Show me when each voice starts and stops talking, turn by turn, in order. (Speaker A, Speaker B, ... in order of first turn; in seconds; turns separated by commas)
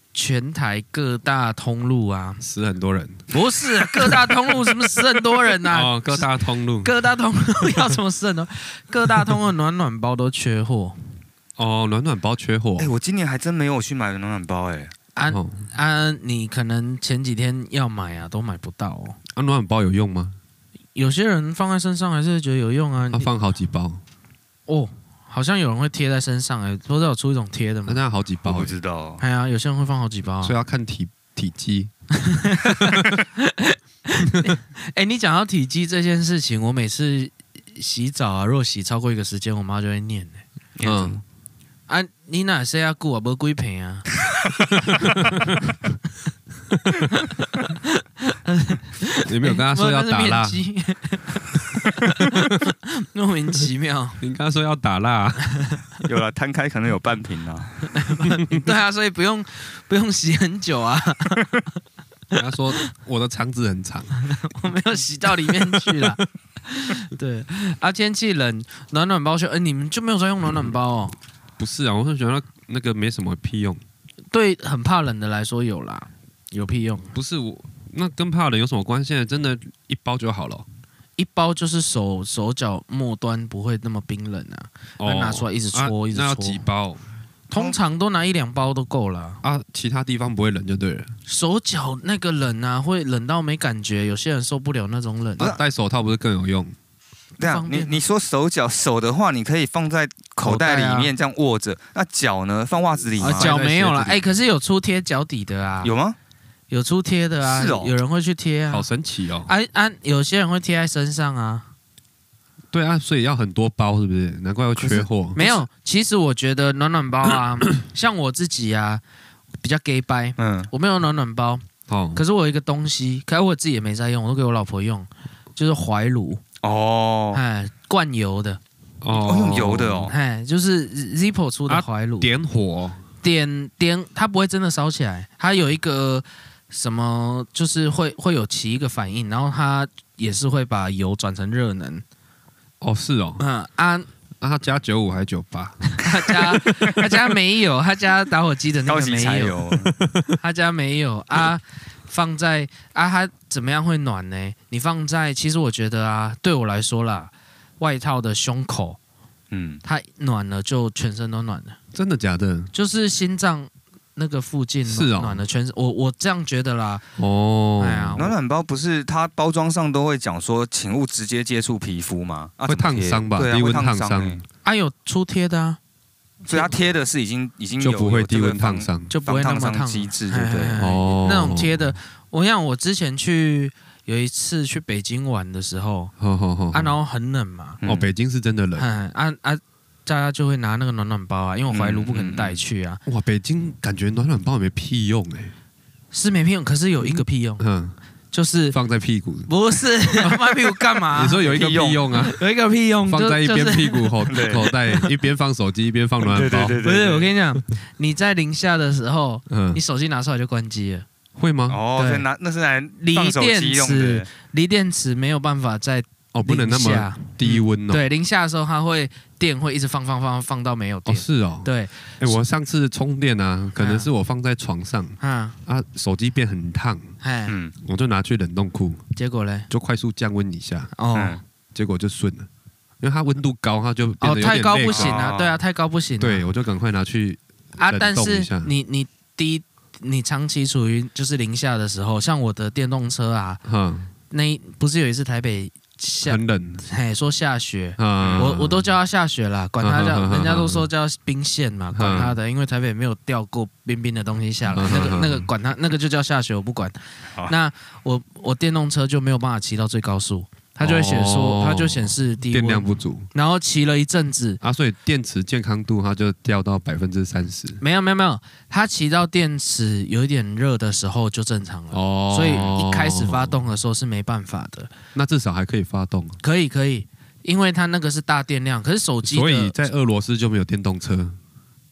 Speaker A: 0.1-2.4, Speaker B: 2.4-3.2, Speaker A: 3.3-11.0, Speaker B: 3.9-5.0, Speaker B: 5.6-6.9, Speaker B: 11.6-12.9, Speaker C: 12.8-14.9, Speaker A: 15.2-19.2, Speaker B: 15.3-15.7, Speaker B: 19.4-20.4, Speaker A: 21.0-23.3, Speaker B: 23.1-24.0, Speaker A: 24.7-28.0, Speaker B: 27.9-28.8, Speaker C: 28.4-29.2, Speaker A: 29.2-30.6, Speaker B: 30.4-31.9, Speaker A: 32.1-40.4, Speaker C: 40.8-41.2, Speaker B: 40.8-41.2, Speaker A: 41.9-44.1, Speaker B: 44.8-45.6, Speaker A: 44.9-45.5, Speaker B: 46.7-47.1, Speaker A: 47.1-54.2, Speaker B: 49.2-50.6, Speaker B: 51.7-52.5, Speaker B: 54.2-55.5, Speaker A: 55.5-55.8, Speaker C: 56.0-57.9, Speaker A: 57.9-61.7, Speaker B: 58.2-58.7, Speaker B: 62.3-64.2, Speaker A: 64.2-71.2, Speaker B: 65.4-66.2, Speaker B: 71.6-73.8, Speaker A: 74.3-77.2, Speaker B: 77.1-80.7, Speaker A: 81.2-86.7, Speaker B: 85.0-87.0, Speaker A: 87.5-89.4, Speaker B: 89.4-91.1, Speaker A: 91.3-95.5, Speaker B: 95.4-96.8, Speaker A: 97.4-98.0, Speaker C: 97.4-103.5, Speaker A: 100.4-101.1, Speaker A: 103.2-105.9, Speaker B: 103.2-104.2, Speaker C: 105.8-106.2, Speaker A: 106.7-108.9, Speaker C: 107.4-108.0, Speaker B: 108.7-109.5, Speaker A: 109.5-111.7, Speaker B: 112.7-115.4, Speaker A: 114.8-119.0, Speaker C: 115.4-115.7, Speaker A: 119.6-121.6, Speaker C: 120.4-120.7, Speaker B: 121.9-122.2, Speaker A: 122.2-126.4, Speaker C: 126.6-127.4, Speaker A: 127.3-128.6, Speaker B: 129.0-130.1, Speaker C: 129.1-130.1, Speaker A: 130.1-132.3, Speaker B: 131.7-133.0, Speaker A: 133.2-142.0, Speaker B: 142.8-143.4, Speaker A: 143.4-144.1, Speaker B: 144.4-147.2, Speaker A: 145.9-149.6, Speaker C: 148.9-150.0, Speaker B: 150.0-150.4, Speaker A: 150.3-159.0, Speaker C: 159.5-159.8, Speaker A: 159.8-161.8, Speaker B: 161.9-162.7, Speaker A: 162.7-167.0, Speaker B: 164.8-165.4, Speaker B: 167.2-168.2, Speaker A: 167.8-168.4, Speaker C: 168.2-174.4, Speaker B: 172.7-174.4, Speaker A: 174.6-175.8, Speaker A: 176.4-176.8, Speaker C: 176.5-180.8, Speaker B: 177.8-179.1, Speaker A: 179.1-186.1, Speaker B: 180.8-182.0, Speaker B: 186.2-186.9, Speaker A: 186.7-187.8, Speaker C: 187.8-188.1, Speaker B: 187.8-188.9, Speaker A: 188.8-193.0, Speaker C: 191.7-192.6, Speaker B: 193.1-195.5, Speaker A: 196.1-197.7, Speaker B: 197.0-198.0, Speaker A: 198.3-198.8, Speaker B: 198.7-199.5, Speaker A: 199.5-201.5, Speaker B: 200.2-202.4, Speaker C: 201.4-202.1, Speaker A: 202.2-205.1, Speaker B: 203.1-206.8, Speaker C: 204.3-204.7, Speaker C: 206.2-207.3, Speaker A: 206.8-211.1, Speaker B: 209.5-209.8, Speaker B: 211.4-211.8, Speaker C: 211.7-214.3, Speaker A: 211.9-212.3, Speaker A: 213.0-222.4, Speaker B: 216.3-218.0, Speaker B: 221.1-227.1, Speaker A: 223.8-224.1, Speaker A: 225.2-225.6, Speaker A: 227.2-227.5, Speaker C: 227.5-227.7, Speaker B: 227.8-229.0, Speaker A: 229.2-229.7, Speaker B: 229.7-230.9, Speaker A: 230.9-231.4, Speaker C: 231.1-231.4, Speaker B: 231.7-232.5, Speaker B: 233.0-235.2, Speaker A: 234.2-236.4, Speaker C: 234.9-235.6, Speaker B: 236.2-238.7, Speaker A: 237.8-243.6, Speaker B: 243.7-244.1, Speaker A: 244.3-264.6, Speaker B: 246.2-246.8, Speaker B: 248.0-248.9, Speaker C: 248.2-248.5, Speaker B: 249.8-250.9, Speaker B: 251.9-252.3, Speaker B: 254.7-255.5, Speaker C: 254.8-255.0, Speaker B: 260.8-263.3, Speaker B: 264.6-267.8, Speaker A: 267.8-274.9, Speaker B: 271.9-273.6, Speaker B: 275.1-276.4, Speaker A: 276.4-279.8, Speaker B: 279.2-281.4